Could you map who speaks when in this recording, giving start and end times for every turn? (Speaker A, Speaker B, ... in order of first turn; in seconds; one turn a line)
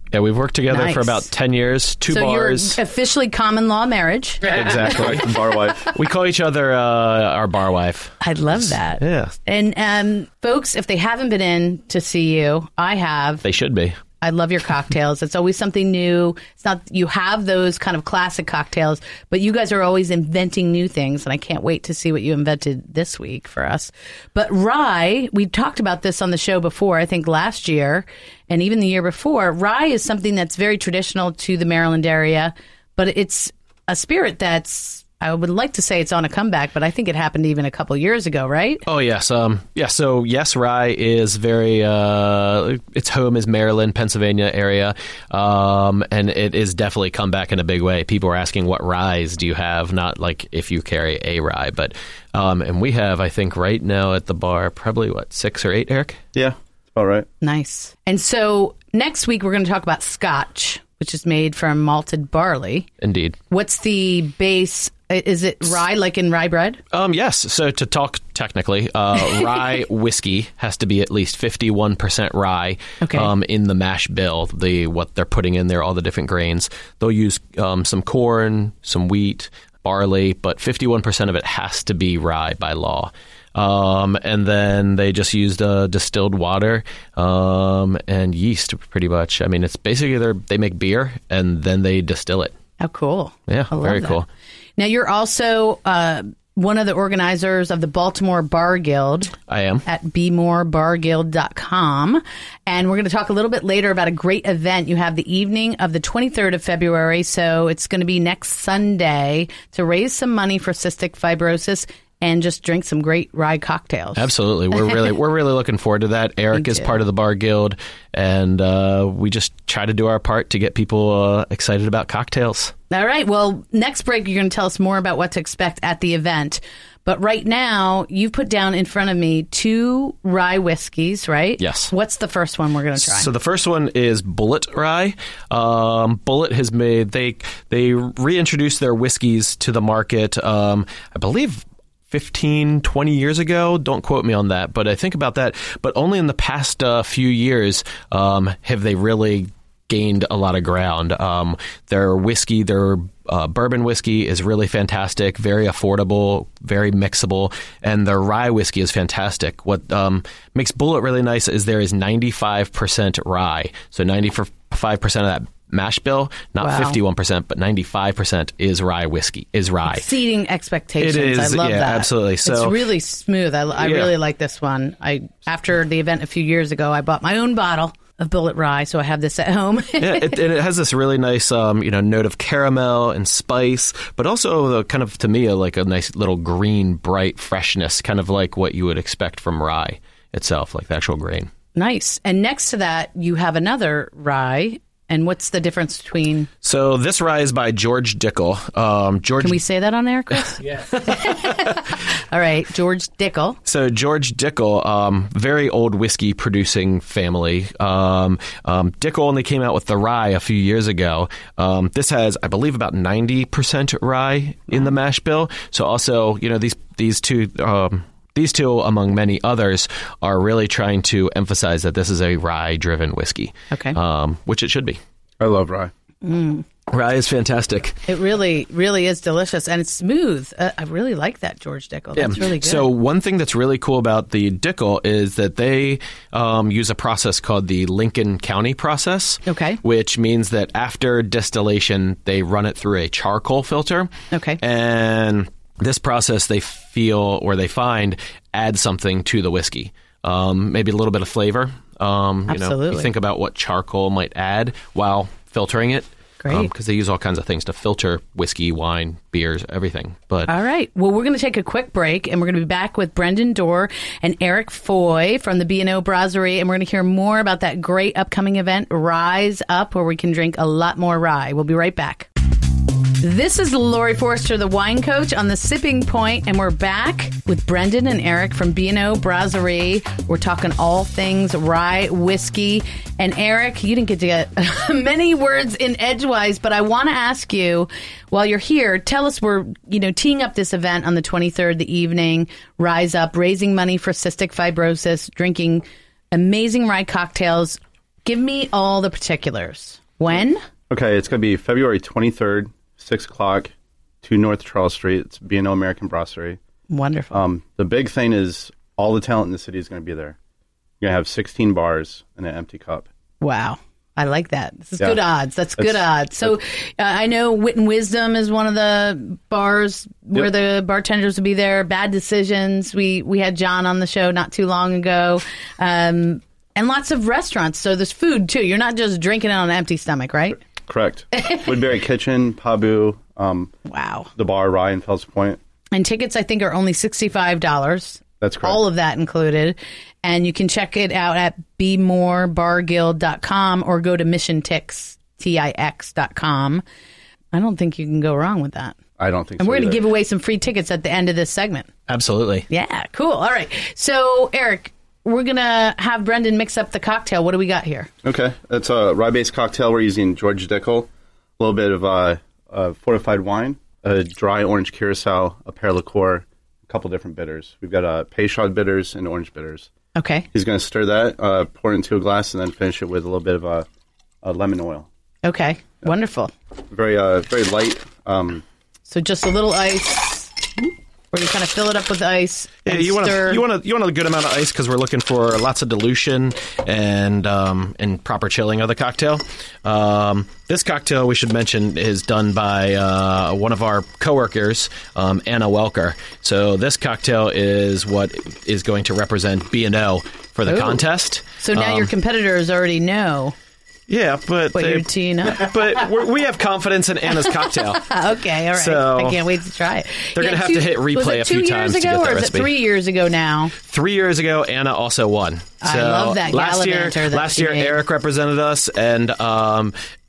Speaker A: 0.1-2.8
Speaker B: 0.7-1.3
Speaker B: 2.1-4.8
Speaker A: 4.5-5.3
Speaker C: 4.8-5.9
Speaker A: 5.9-9.3
Speaker B: 8.2-13.4
Speaker A: 13.4-14.0
Speaker B: 14.2-38.9
Speaker A: 38.9-56.2
Speaker C: 56.4-57.3
Speaker B: 57.4-62.9
Speaker A: 63.0-63.4
Speaker B: 63.5-66.8
Speaker A: 66.9-92.5
Speaker B: 73.0-73.3
Speaker B: 92.8-94.2
Speaker A: 93.5-94.3
Speaker B: 94.8-114.3
Speaker A: 99.5-99.8
Speaker A: 114.2-122.7
Speaker B: 116.5-117.0
Speaker B: 122.9-133.3
Speaker A: 131.6-131.9
Speaker A: 133.0-170.1
Speaker B: 166.6-167.0
Speaker B: 169.9-180.4
Speaker A: 171.0-172.8
Speaker A: 173.8-174.1
Speaker A: 180.0-191.5
Speaker B: 191.8-196.5
Speaker A: 196.6-199.6
Speaker B: 199.4-203.6
Speaker A: 200.7-201.8
Speaker A: 203.7-225.0
Speaker B: 223.7-224.0
Speaker C: 225.4-225.9
Speaker B: 226.2-226.7
Speaker A: 226.9-228.0
Speaker B: 228.1-232.9
Speaker A: 232.2-260.5
Speaker B: 239.5-239.8
Speaker B: 244.3-244.6
Speaker B: 252.5-253.1
Speaker B: 256.4-256.7
Speaker B: 260.5-272.3
Speaker B: 273.2-300.6
Speaker C: 300.9-306.6
Speaker B: 306.9-307.4
Speaker C: 307.3-310.4
Speaker C: 311.0-313.1
Speaker B: 313.4-330.6
Speaker C: 330.9-333.7
Speaker B: 333.9-334.3
Speaker C: 334.4-335.6
Speaker B: 335.9-346.8
Speaker C: 338.4-338.8
Speaker B: 347.5-349.0
Speaker C: 349.2-350.0
Speaker B: 349.6-351.9
Speaker A: 352.1-352.7
Speaker B: 352.7-358.1
Speaker C: 358.2-369.9
Speaker B: 370.2-370.5
Speaker C: 370.5-373.9
Speaker C: 374.4-375.1
Speaker B: 375.4-376.5
Speaker C: 376.9-378.6
Speaker B: 379.1-383.6
Speaker A: 382.9-402.1
Speaker B: 400.7-401.1
Speaker B: 401.6-403.6
Speaker A: 404.1-408.2
Speaker B: 404.7-405.7
Speaker B: 407.9-413.8
Speaker A: 408.7-409.4
Speaker A: 410.3-412.7
Speaker A: 413.8-419.9
Speaker B: 415.8-418.0